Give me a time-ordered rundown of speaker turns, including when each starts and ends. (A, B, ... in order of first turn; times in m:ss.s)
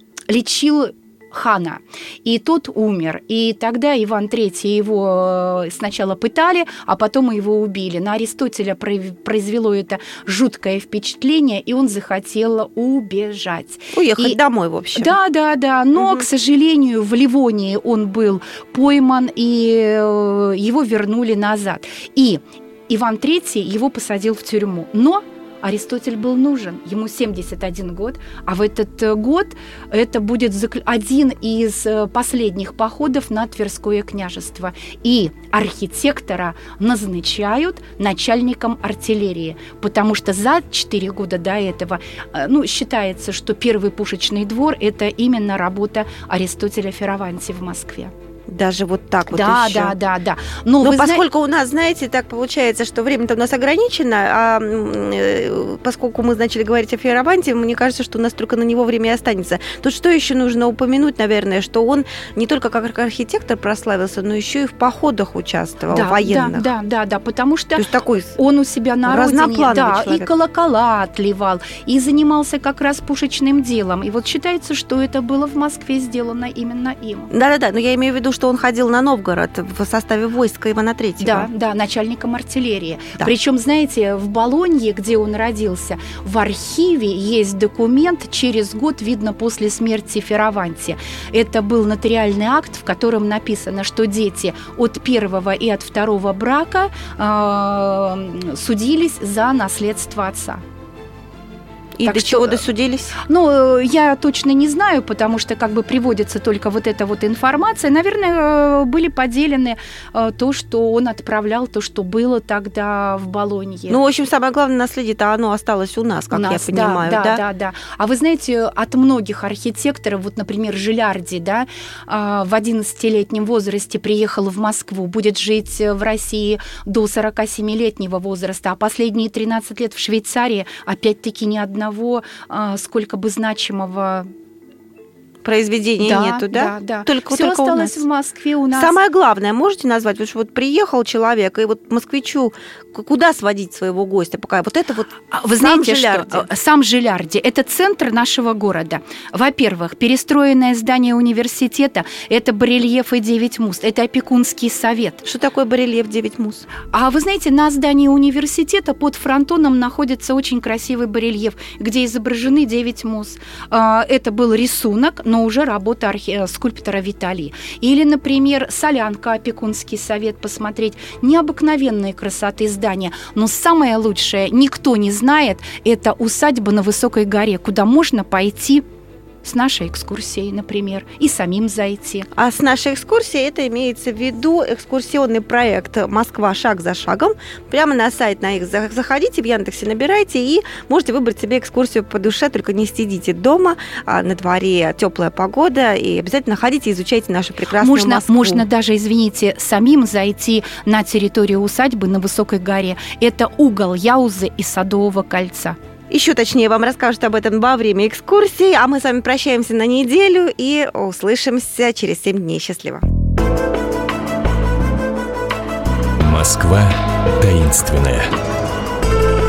0:00.3-0:14.4 A
0:13.9-0:15.2 B
0:15.0-0:48.1 A
0:16.0-0:16.2 B
0:48.5-0:50.0 B
0:49.3-0:51.2 A
0:50.8-1:06.7 B
1:05.9-1:17.3 A
1:07.8-1:08.4 B
1:09.0-1:10.3 B
1:17.3-1:21.5 B
1:21.2-1:40.6 A
1:42.0-1:43.2 B
1:42.0-1:42.6 A
1:43.2-1:54.0 A
1:53.9-1:57.4 B
1:56.3-2:14.3 A
2:15.4-2:18.0 B
2:16.0-2:19.0 A
2:18.7-2:26.5 B
2:25.3-2:35.2 A
2:35.2-2:36.7 B
2:36.9-2:58.8 A
2:59.4-3:02.3 A
3:02.4-3:18.6 B
3:17.8-3:25.8 A
3:26.1-3:33.0 B
3:36.2-3:38.3 C